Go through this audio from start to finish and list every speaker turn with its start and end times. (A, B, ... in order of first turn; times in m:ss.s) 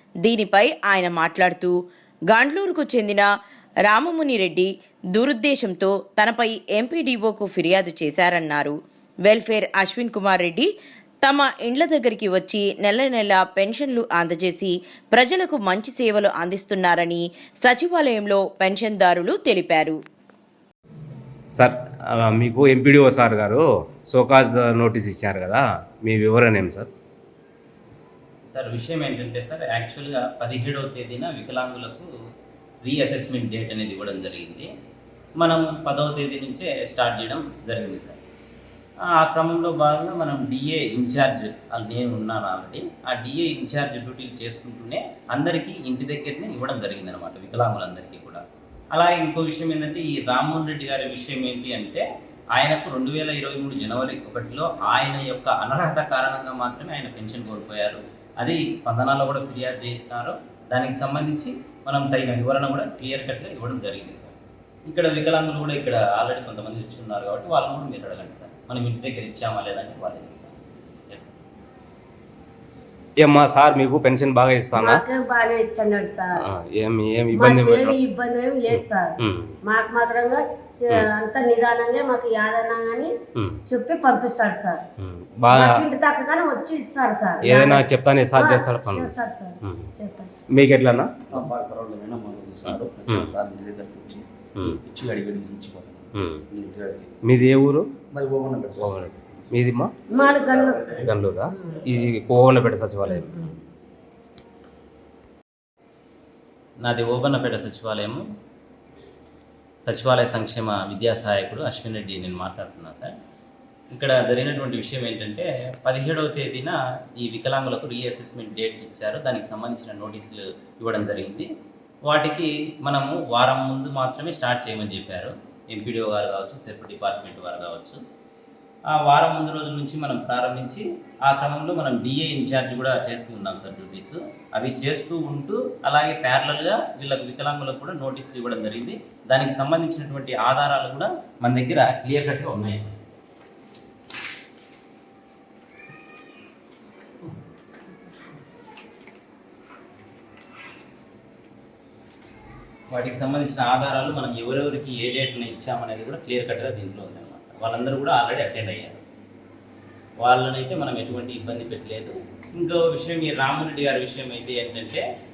0:00.2-0:03.3 A
0:03.8-0:10.7 A
0:11.2-0:20.0 A
0:21.5-0:26.9 B
0:28.5-0:32.1 C
0:32.8-0:34.7 C
0:35.4-0:38.2 C
0:39.2-0:48.4 C
0:48.9-0:52.0 C
0:52.6-1:04.4 C
1:04.9-1:10.6 C
1:11.1-1:11.4 C
1:13.2-1:15.0 B
1:14.8-1:16.4 D
1:16.4-1:18.0 B
1:17.3-1:19.1 D
1:18.7-1:19.6 B
1:19.6-1:23.1 D
1:23.7-1:24.8 D
1:25.0-1:25.7 B
1:25.5-1:27.8 D
1:27.4-1:29.1 B
1:28.4-1:30.3 D
1:30.5-1:31.1 B
1:31.3-1:37.1 E
1:36.1-1:36.4 B
1:37.3-1:37.9 B
1:38.1-1:38.9 E
1:38.8-1:39.9 B
1:40.1-1:41.1 D
1:40.4-1:41.1 E
1:41.1-1:43.5 B
1:46.8-1:48.2 C
1:49.8-1:53.1 C
1:53.9-2:01.5 C
2:02.1-2:08.0 C
2:08.9-2:22.8 C
2:32.9-2:39.0 C
2:40.2-2:45.0 C